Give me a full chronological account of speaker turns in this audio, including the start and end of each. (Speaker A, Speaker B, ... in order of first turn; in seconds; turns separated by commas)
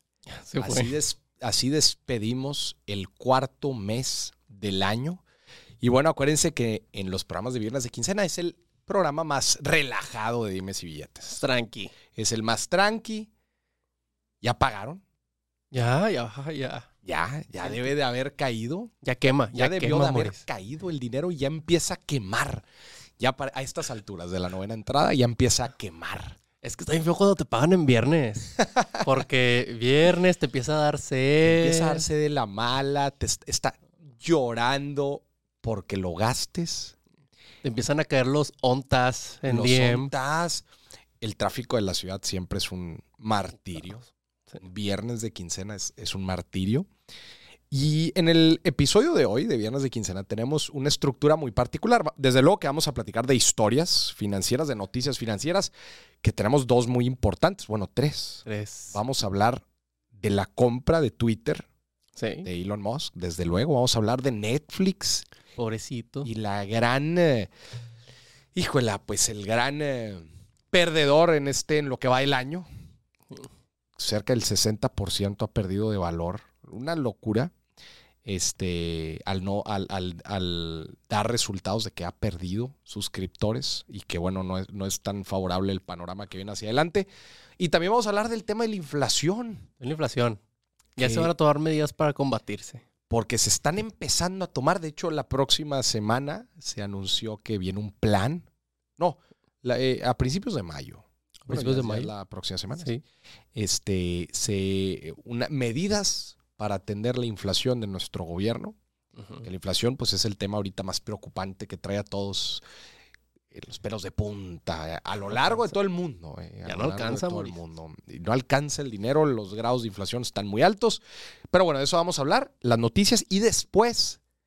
Speaker A: 0.3-0.9, Speaker B: 0.6-5.2, Speaker B: 5.8-11.4, Speaker A: 11.3-11.9, Speaker B: 12.1-13.3, Speaker B: 14.4-15.0, Speaker A: 15.7-16.9, Speaker B: 17.0-18.9, Speaker A: 19.0-20.4, Speaker B: 19.5-22.6, Speaker B: 23.2-26.4, Speaker A: 26.6-32.0, Speaker B: 28.7-29.0, Speaker B: 31.4-37.0, Speaker A: 37.6-40.1, Speaker B: 39.5-40.6, Speaker B: 41.2-46.9, Speaker B: 47.7-55.7, Speaker B: 56.2-61.6, Speaker A: 58.5-59.0, Speaker A: 62.1-62.5, Speaker B: 62.4-65.2, Speaker A: 65.6-66.3, Speaker B: 66.2-67.5, Speaker B: 68.5-72.7, Speaker B: 74.0-77.5, Speaker B: 78.2-87.1, Speaker B: 87.6-89.7, Speaker A: 89.8-90.4, Speaker B: 91.0-91.3, Speaker A: 91.0-92.8, Speaker B: 93.1-98.5, Speaker B: 99.0-102.9, Speaker A: 101.5-102.1, Speaker B: 103.5-108.8, Speaker A: 109.2-109.4, Speaker B: 109.4-112.6, Speaker B: 113.5-121.0, Speaker A: 115.3-115.7, Speaker A: 116.6-117.6, Speaker B: 121.5-124.2